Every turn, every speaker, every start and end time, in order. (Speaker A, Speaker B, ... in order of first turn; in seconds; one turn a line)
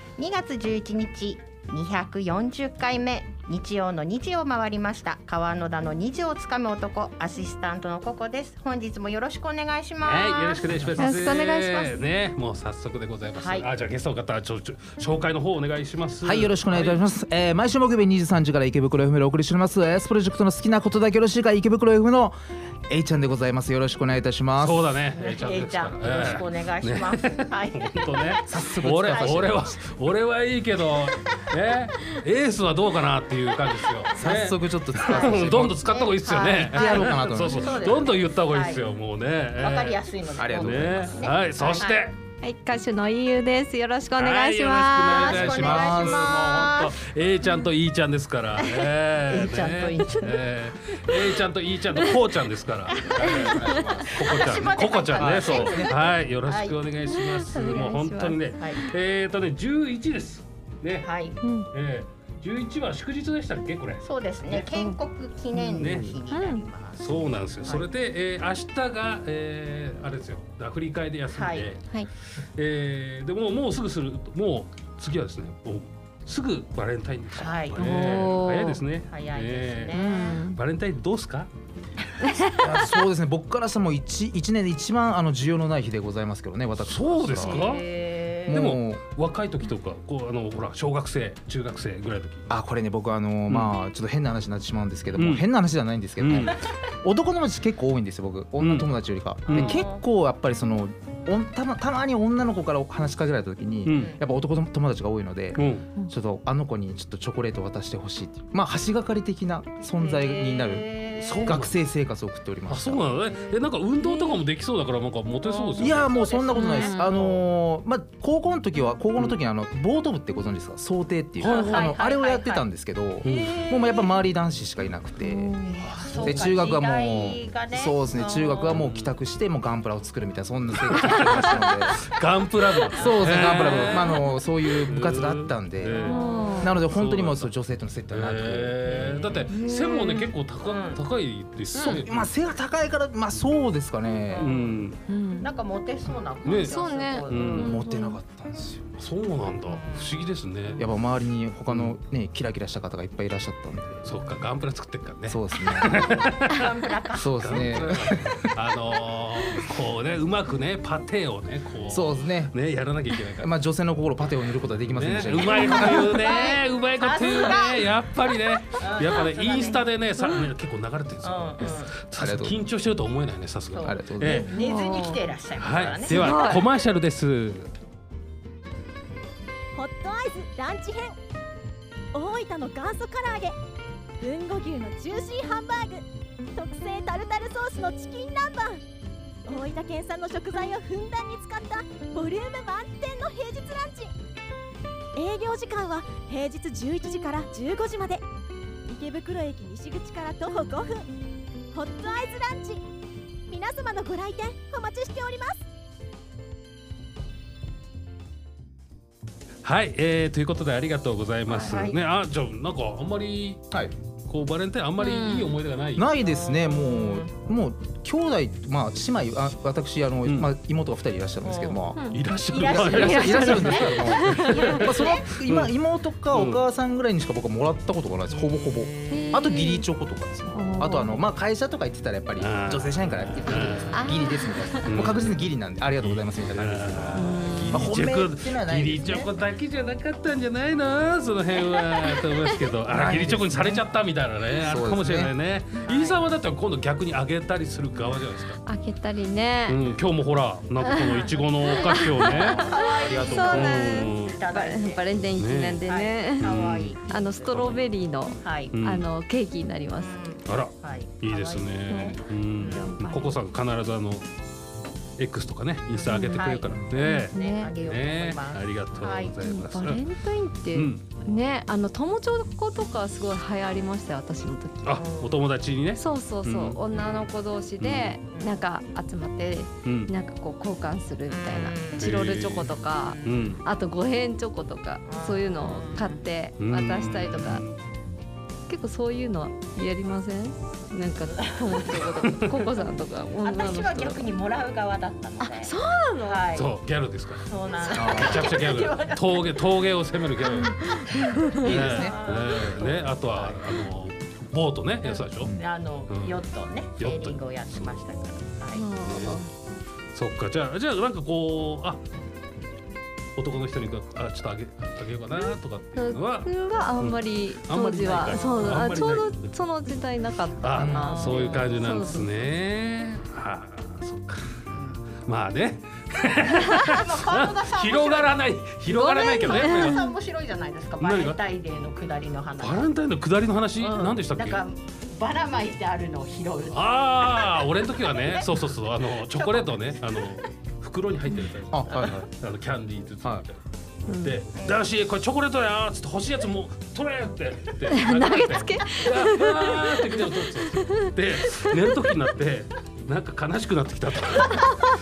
Speaker A: 0.2-11.3
Speaker B: 10.0-17.0
Speaker C: 10.9-12.0
Speaker A: 13.4-13.7
Speaker D: 16.2-22.4
Speaker D: 22.9-24.9
Speaker B: 24.6-42.2
Speaker A: 25.1-29.6
Speaker D: 28.5-29.5
Speaker D: 34.1-35.8
Speaker A: 35.0-38.9
Speaker D: 36.7-37.9
Speaker A: 39.6-42.1
Speaker D: 40.4-41.3
Speaker C: 42.4-46.1
Speaker B: 44.2-61.1
Speaker A: 45.1-46.9
Speaker D: 45.3-46.3
Speaker A: 49.3-50.4
Speaker D: 53.1-54.5
Speaker A: 53.2-56.8
Speaker D: 55.1-56.0
Speaker C: 57.1-58.6
Speaker A: 61.0-61.4
Speaker C: 61.4-61.7
Speaker B: 61.7-64.6
Speaker A: 64.0-67.9
Speaker C: 64.6-65.0
Speaker B: 65.8-66.1
Speaker D: 65.8-66.2
Speaker C: 66.3-66.7
Speaker B: 67.0-80.0
Speaker A: 71.3-71.7
Speaker A: 77.3-78.3
Speaker C: 77.8-78.8
Speaker A: 79.0-80.4
Speaker C: 79.9-80.6
Speaker B: 80.5-81.5
Speaker C: 82.2-82.5
Speaker D: 82.6-87.7
Speaker B: 86.8-87.9
Speaker A: 87.4-88.7
Speaker D: 88.5-89.0
Speaker B: 88.5-92.5
Speaker D: 92.5-110.9
Speaker B: 93.5-93.8
Speaker B: 95.1-95.5
Speaker B: 96.2-96.6
Speaker B: 98.6-98.9
Speaker B: 99.4-99.8
Speaker A: 99.5-100.0
Speaker B: 103.8-104.1
Speaker A: 103.9-104.2
Speaker C: 105.5-106.1
Speaker B: 105.5-105.8
Speaker A: 109.9-111.6
Speaker B: 111.2-111.8
Speaker D: 111.4-113.1
Speaker B: 112.7-116.2
Speaker C: 114.0-114.4
Speaker A: 115.4-117.4
Speaker D: 115.8-125.5
Speaker C: 116.5-117.2
Speaker B: 121.4-121.9
Speaker A: 121.4-122.7
Speaker B: 123.2-123.7
Speaker C: 125.2-126.3
Speaker A: 125.7-128.8
Speaker B: 125.8-126.3
Speaker D: 126.2-132.0
Speaker B: 128.7-129.2
Speaker B: 130.8-134.3
Speaker D: 132.9-138.8
Speaker A: 133.0-133.7
Speaker B: 134.9-137.5
Speaker C: 135.9-136.8
Speaker B: 138.1-142.2
Speaker A: 138.8-139.5
Speaker C: 139.5-140.3
Speaker A: 140.6-141.0
Speaker C: 141.7-142.0
Speaker D: 141.8-144.5
Speaker A: 144.2-144.9
Speaker B: 144.4-145.0
Speaker C: 145.1-145.5
Speaker A: 145.4-147.8
Speaker B: 146.4-147.8
Speaker C: 146.6-148.2
Speaker D: 147.5-148.9
Speaker B: 149.0-150.9
Speaker A: 149.8-150.1
Speaker D: 150.8-154.1
Speaker B: 151.7-152.0
Speaker B: 154.0-156.7
Speaker D: 155.3-156.0
Speaker A: 156.0-157.6
Speaker D: 157.2-158.5
Speaker B: 157.2-163.5
Speaker D: 161.9-162.5
Speaker D: 163.4-166.1
Speaker B: 164.9-174.5
Speaker A: 165.4-167.9
Speaker C: 165.5-166.4
Speaker A: 168.7-169.9
Speaker A: 171.2-171.9
Speaker D: 172.2-172.6
Speaker A: 173.7-176.6
Speaker D: 173.8-174.4
Speaker C: 174.5-175.2
Speaker B: 175.6-177.7
Speaker C: 176.1-176.6
Speaker E: 179.7-181.2
Speaker E: 182.1-183.6
Speaker E: 184.2-188.8
Speaker E: 189.4-194.1
Speaker E: 195.1-198.2
Speaker E: 198.9-201.1
Speaker E: 201.7-202.8
Speaker E: 203.5-205.6
Speaker B: 209.6-213.6
Speaker A: 211.5-212.0
Speaker B: 214.2-216.1
Speaker C: 215.0-215.6
Speaker D: 215.9-222.0
Speaker A: 216.2-217.3
Speaker B: 220.2-220.5
Speaker A: 221.4-221.9
Speaker C: 221.9-222.2
Speaker B: 222.1-225.8
Speaker A: 222.5-225.3
Speaker D: 222.7-239.3
Speaker C: 222.8-225.1
Speaker B: 226.3-226.6
Speaker A: 228.3-229.4
Speaker C: 229.1-229.8
Speaker C: 230.5-231.2
Speaker B: 232.4-234.0
Speaker C: 233.5-234.9
Speaker A: 233.5-234.1
Speaker B: 234.8-235.4
Speaker B: 236.0-248.6
Speaker C: 237.1-237.9
Speaker A: 237.2-237.6
Speaker D: 242.9-243.9
Speaker D: 244.6-245.3
Speaker A: 245.9-246.2
Speaker C: 248.6-249.8
Speaker B: 249.7-252.7
Speaker C: 250.8-256.5
Speaker A: 252.2-255.2
Speaker D: 253.0-253.7
Speaker B: 253.3-254.4
Speaker B: 255.3-255.8
Speaker A: 255.8-257.6
Speaker B: 256.4-257.8
Speaker C: 257.1-260.2
Speaker A: 258.4-258.8
Speaker B: 258.7-259.1
Speaker A: 259.9-263.0
Speaker B: 260.4-264.3
Speaker C: 261.9-263.4
Speaker B: 265.2-270.0
Speaker A: 265.9-269.4
Speaker C: 266.1-267.7
Speaker C: 269.4-275.0
Speaker B: 270.7-271.1
Speaker B: 274.8-276.8
Speaker A: 275.0-275.5
Speaker C: 275.9-287.6
Speaker A: 276.9-277.3
Speaker B: 277.8-278.1
Speaker A: 278.2-278.9
Speaker B: 279.8-280.1
Speaker A: 281.3-282.1
Speaker B: 282.0-283.6
Speaker A: 283.1-283.6
Speaker A: 285.1-286.2
Speaker B: 286.6-287.8
Speaker C: 288.7-294.2
Speaker A: 291.3-292.0
Speaker B: 292.1-292.8
Speaker A: 293.4-295.7
Speaker C: 295.4-296.4
Speaker A: 296.2-296.7
Speaker B: 296.5-305.5
Speaker A: 297.4-299.6
Speaker D: 297.9-298.5
Speaker C: 300.5-301.9
Speaker D: 301.6-302.1
Speaker A: 301.7-303.9
Speaker A: 305.1-308.8
Speaker B: 306.1-306.4
Speaker B: 307.0-308.0
Speaker C: 308.7-309.5
Speaker B: 309.0-309.4
Speaker B: 310.1-312.0
Speaker B: 313.4-319.5
Speaker C: 315.9-322.3
Speaker B: 320.6-324.6
Speaker D: 320.8-321.1
Speaker A: 321.1-321.7
Speaker A: 324.7-325.1
Speaker B: 325.2-330.1
Speaker A: 327.0-328.5
Speaker C: 328.9-330.1
Speaker A: 329.4-332.9
Speaker B: 331.0-331.4
Speaker B: 332.6-334.6
Speaker A: 333.8-338.6
Speaker B: 336.7-354.7
Speaker A: 339.2-340.0
Speaker D: 341.7-342.3
Speaker C: 344.1-344.4
Speaker A: 344.5-344.9
Speaker C: 347.9-352.0